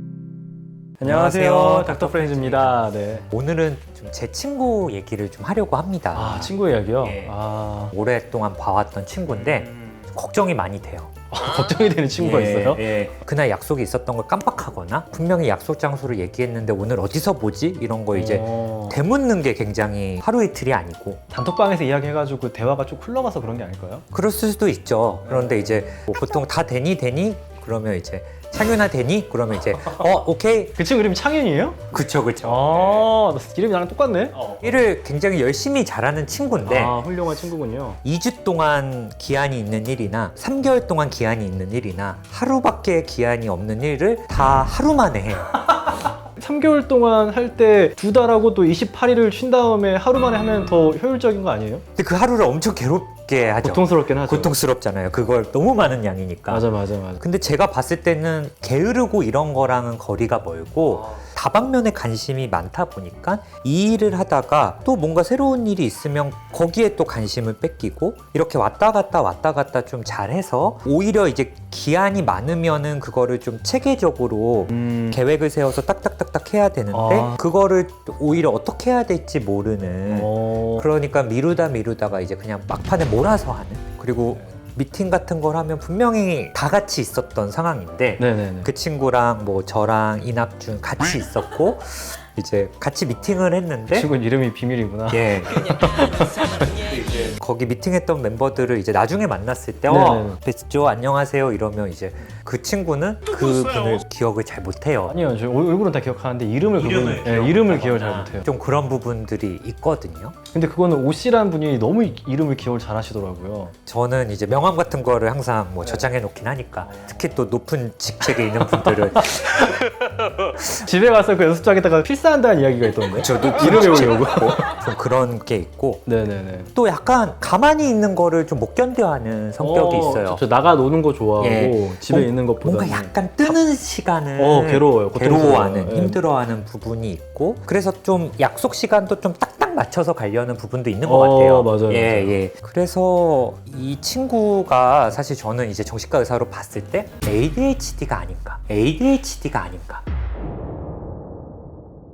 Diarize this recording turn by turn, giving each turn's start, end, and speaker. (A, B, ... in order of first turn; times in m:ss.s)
0:01.0-0:03.3 A
0:01.0-0:07.4 B
0:06.1-0:07.9 A
0:07.9-0:11.1 B
0:11.3-0:12.9 A
0:12.2-0:21.2 B
0:18.1-0:19.0 A
0:21.3-0:24.0 A
0:24.1-0:30.8 B
0:25.3-0:25.8 A
0:30.8-0:34.7 A
0:31.9-0:33.1 B
0:34.6-0:37.0 B
0:36.6-0:38.0 A
0:38.0-0:45.6 B
0:46.4-0:51.8 A
0:52.0-1:34.1 B
0:53.4-0:54.5 A
0:56.5-0:57.2 A
1:00.9-1:01.3 A
1:14.7-1:15.2 A
1:16.9-1:17.4 A
1:20.1-1:20.9 A
1:28.2-1:28.7 A
1:33.9-1:36.5 A
1:35.1-1:35.8 B
1:36.7-1:45.2 B
1:39.9-1:40.4 A
1:45.1-1:48.5 A
1:46.8-1:50.4 B
1:50.5-1:53.7 A
1:53.8-1:59.8 B
1:55.8-1:56.1 A
1:56.8-1:57.1 A
1:58.3-2:00.0 A
2:00.7-2:04.7 A
2:03.1-2:06.1 B
2:06.1-2:06.7 A
2:06.7-2:10.4 B
2:09.6-2:13.6 A
2:11.4-2:30.0 B
2:14.4-2:16.2 A
2:21.0-2:22.4 A